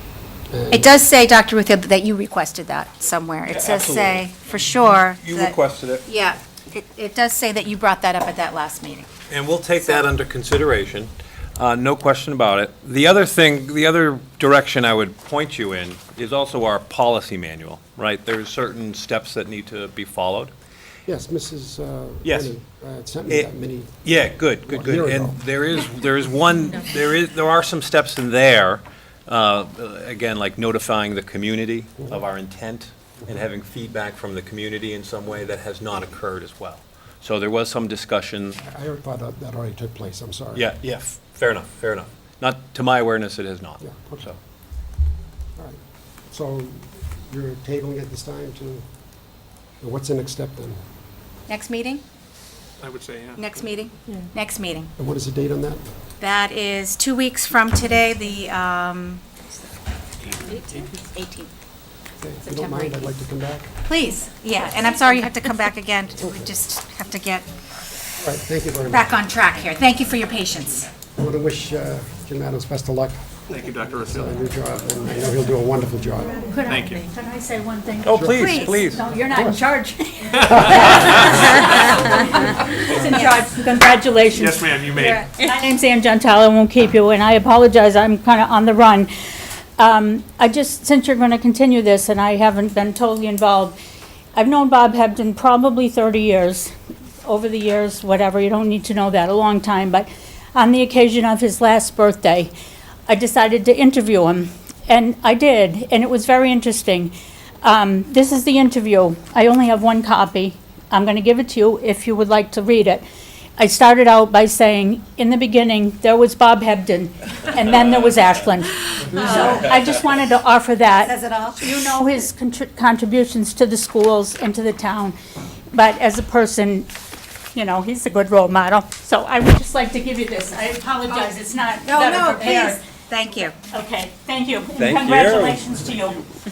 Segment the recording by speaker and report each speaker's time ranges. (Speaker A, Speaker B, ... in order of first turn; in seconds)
Speaker A: 0.5-0.9, 21.1-25.4, 38.6-40.6, 43.8-44.3, 46.3-48.8, 49.8-50.8, 55.0-55.9, 62.2-63.7, 66.2-66.5, 68.2-69.1, 71.1-76.5, 78.1-78.5, 79.3-79.6
Speaker B: 0.7-9.1, 9.8-10.1, 51.5-52.0, 53.4-54.9, 56.2-59.2, 60.6-61.5, 62.4-63.0, 63.9-67.5, 68.9-70.9, 78.4-78.7, 119.1-119.7, 121.0-121.8, 131.8-133.5
Speaker C: 3.5-6.0, 9.3-20.5, 22.2-22.5, 24.0-38.6, 40.5-44.3, 78.0-79.0, 134.8-135.6
Speaker D: 52.8-53.6, 73.5-74.4, 76.7-77.1, 84.3-85.3
Speaker E: 76.5-84.7, 85.4-89.1, 89.8-93.8, 94.3-96.7, 97.2-102.5, 103.1-113.0, 113.6-125.2, 125.7-126.9, 127.5-132.8, 133.7-136.2